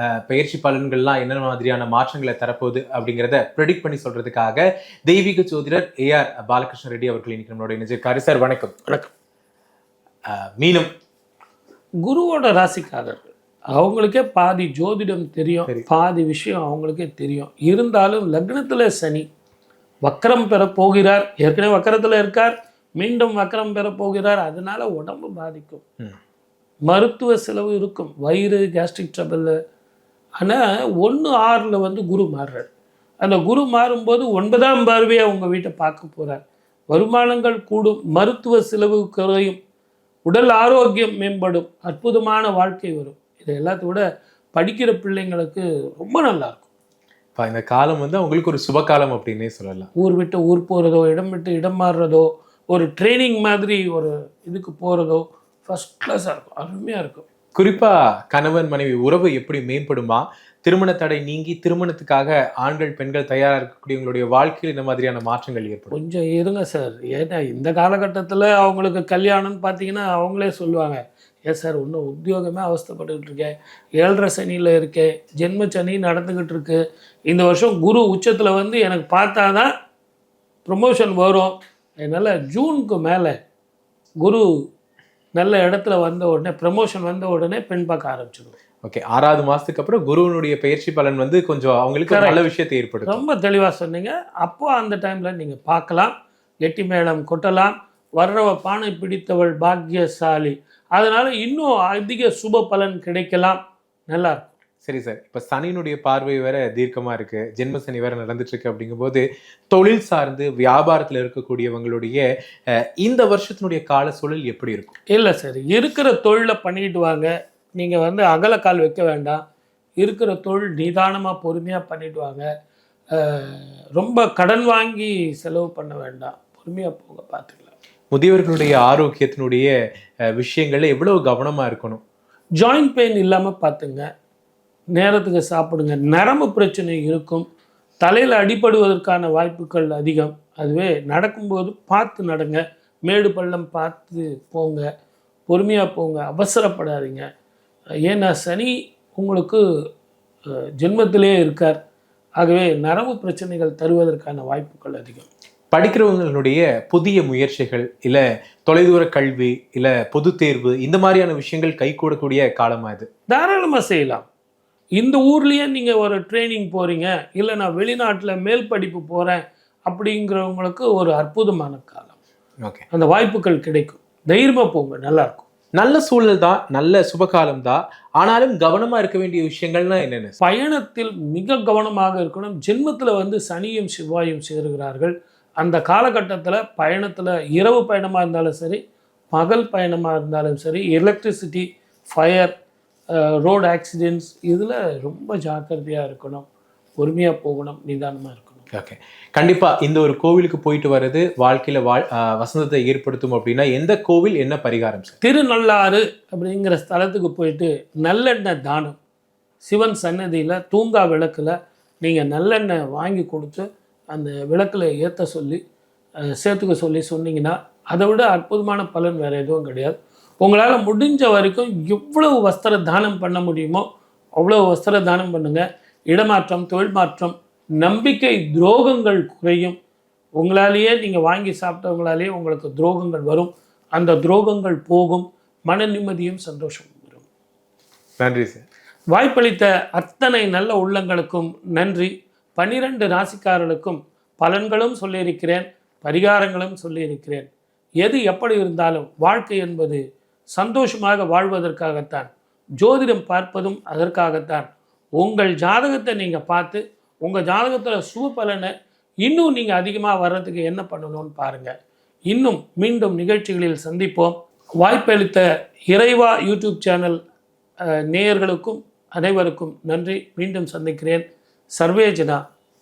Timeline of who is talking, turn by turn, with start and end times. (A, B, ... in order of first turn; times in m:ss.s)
0:00.3-0:08.7 A
0:10.3-0:10.9 A
0:12.0-0:19.3 B
0:20.0-0:25.8 B
0:26.9-0:29.6 B
0:30.4-0:32.7 B
0:33.2-0:36.4 B
0:36.9-0:39.6 B
0:40.2-0:44.0 B
0:44.5-0:46.7 B
0:47.4-0:49.9 A
0:50.0-0:57.2 B
0:57.5-1:05.9 A
1:05.9-1:19.7 B
1:20.6-1:23.3 B
1:25.4-1:28.6 B
1:28.8-1:33.2 A
1:32.1-1:32.4 B
1:33.0-1:44.5 B
1:44.8-1:52.2 A
1:53.0-1:54.9 A
1:55.1-1:59.4 B
2:00.0-2:02.5 B
2:03.1-2:07.7 B
2:08.1-2:09.7 A
2:10.3-2:12.0 A
2:12.6-2:14.0 B
2:14.9-2:17.4 B
2:18.0-2:24.8 B
2:25.5-2:27.2 B
2:28.0-2:29.6 B
2:30.8-2:31.8 B
2:32.4-2:35.3 B
2:35.7-2:43.1 A
2:43.3-2:44.2 B
2:45.0-2:52.2 B
2:52.9-2:55.4 B
2:55.8-3:00.4 A
3:00.4-3:08.8 B
3:09.3-3:12.5 B
3:13.1-3:16.5 B
3:17.0-3:18.6 B
3:18.7-3:25.2 A
3:25.2-3:29.0 B
3:29.6-3:35.6 B
3:36.3-3:43.8 B
3:44.4-3:49.8 B
3:50.4-3:57.2 B
3:58.2-3:58.6 A
3:59.1-4:07.5 B
4:08.0-4:10.0 B
4:10.5-4:18.7 B
4:19.2-4:21.7 B
4:22.3-4:27.2 B
4:27.8-4:32.4 B